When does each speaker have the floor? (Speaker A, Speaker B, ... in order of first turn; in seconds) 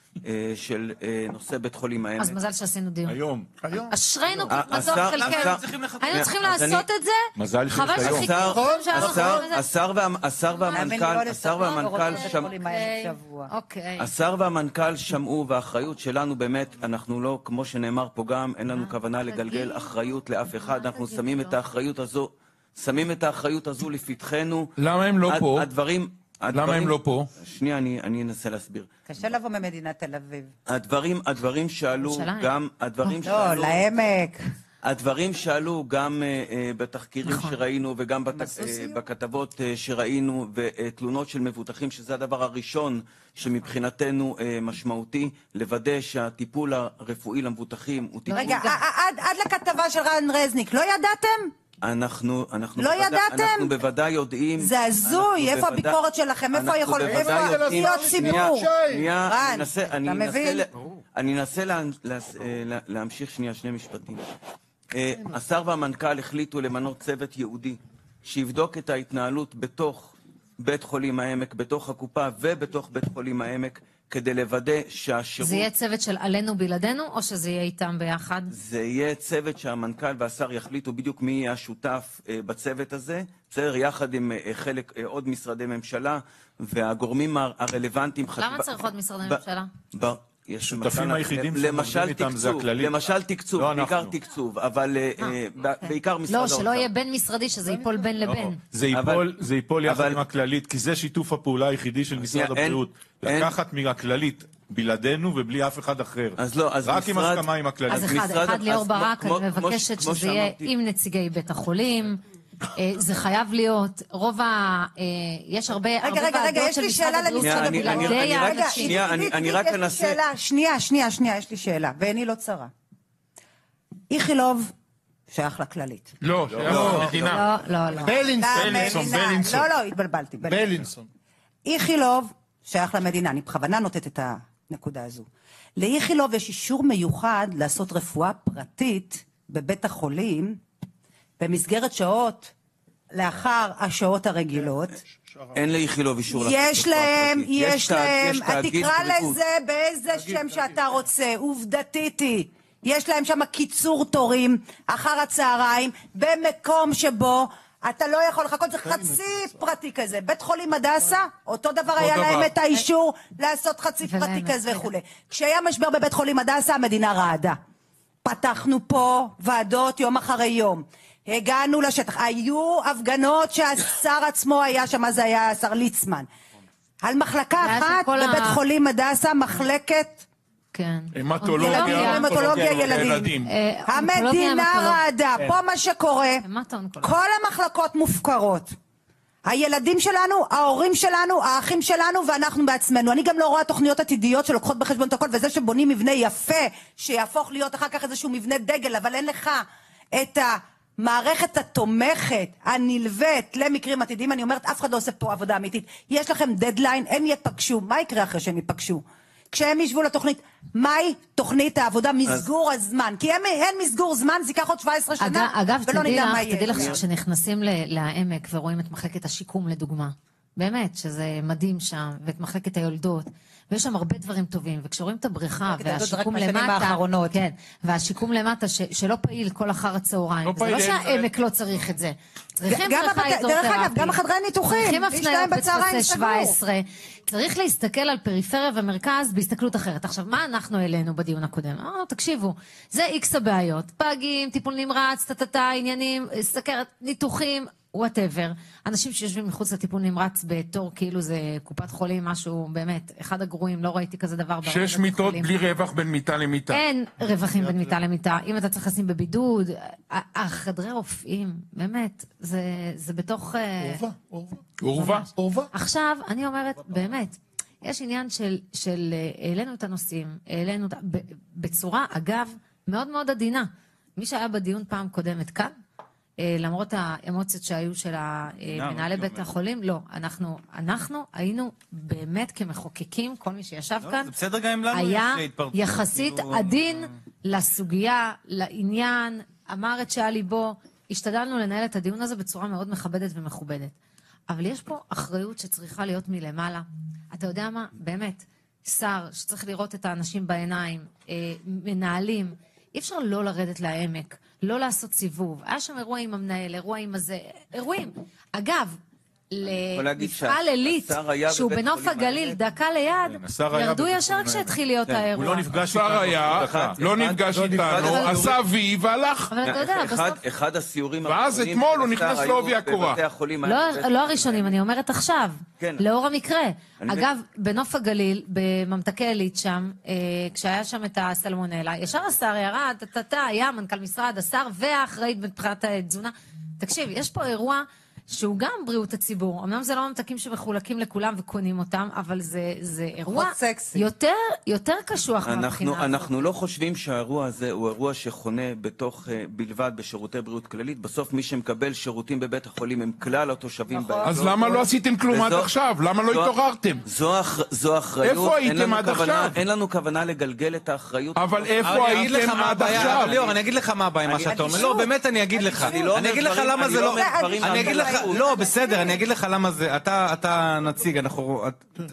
Speaker A: 0.2-2.4, 4.5-6.8, 8.0-12.5, 14.0-24.7, 25.2-28.9, 30.7-33.8, 34.8-48.7, 51.8-56.0, 56.5-64.3, 64.9-75.7, 78.5-96.9, 98.9-99.3, 99.8-100.2, 102.2-103.5, 106.4-110.7, 117.4-120.2, 145.5-149.4, 216.7-217.0, 309.9-312.6, 316.2-318.6, 319.6-324.7, 325.8-326.0, 327.0-327.3, 345.4-355.7, 356.2-363.6, 364.3-365.0, 365.6-368.7
Speaker B: 2.2-3.2, 3.9-9.7, 10.6-10.9, 12.1-14.1, 18.7-19.9, 20.5-21.6, 32.0-32.5, 37.2-37.6, 48.3-48.8, 75.4-78.5, 88.4-89.7, 95.2-98.6, 107.9-112.2, 112.7-119.0, 127.2-128.2, 164.0-164.9, 177.6-178.6, 180.7-182.6, 183.4-185.0, 186.4-187.1, 215.2-255.5, 256.7-264.0, 264.9-275.7, 276.4-284.3, 284.9-293.9, 294.5-308.9, 309.5-315.8, 319.5-320.4, 323.6-346.3
Speaker C: 3.0-3.5, 7.4-8.3, 90.6-93.0, 93.5-94.1, 98.2-108.1, 126.5-127.3, 313.4-314.7, 315.3-317.0, 317.8-318.2
Speaker D: 3.6-3.9, 8.3-9.5, 57.0-59.1, 126.6-127.2, 128.0-129.7, 130.4-131.1, 145.1-145.6, 257.6-257.9, 263.8-264.6, 265.3-265.7
Speaker E: 5.3-6.0, 278.7-279.5, 284.0-287.1, 361.8-371.9
Speaker F: 10.7-13.5, 29.1-30.5, 33.2-34.4, 38.3-39.0, 48.3-51.5, 52.8-53.7, 54.6-60.6, 116.0-122.7, 124.1-124.7, 125.3-126.1, 128.4-130.7, 131.6-140.6, 141.4-142.5, 143.1-145.0, 146.3-167.6, 168.2-176.3, 177.0-180.2, 181.6-183.3, 183.9-186.4, 187.0-188.7, 189.4-217.0, 225.7-227.4, 232.7-236.6, 343.3-344.0, 353.9-354.8, 364.3-366.1, 366.9-369.2
Speaker G: 24.8-25.7, 26.5-27.3, 126.2-127.5, 128.6-129.2, 162.0-162.5, 181.1-183.5, 230.4-231.3, 254.6-256.8, 264.8-265.3, 315.8-319.5, 321.2-323.2, 354.2-357.0, 358.2-359.6, 361.4-363.4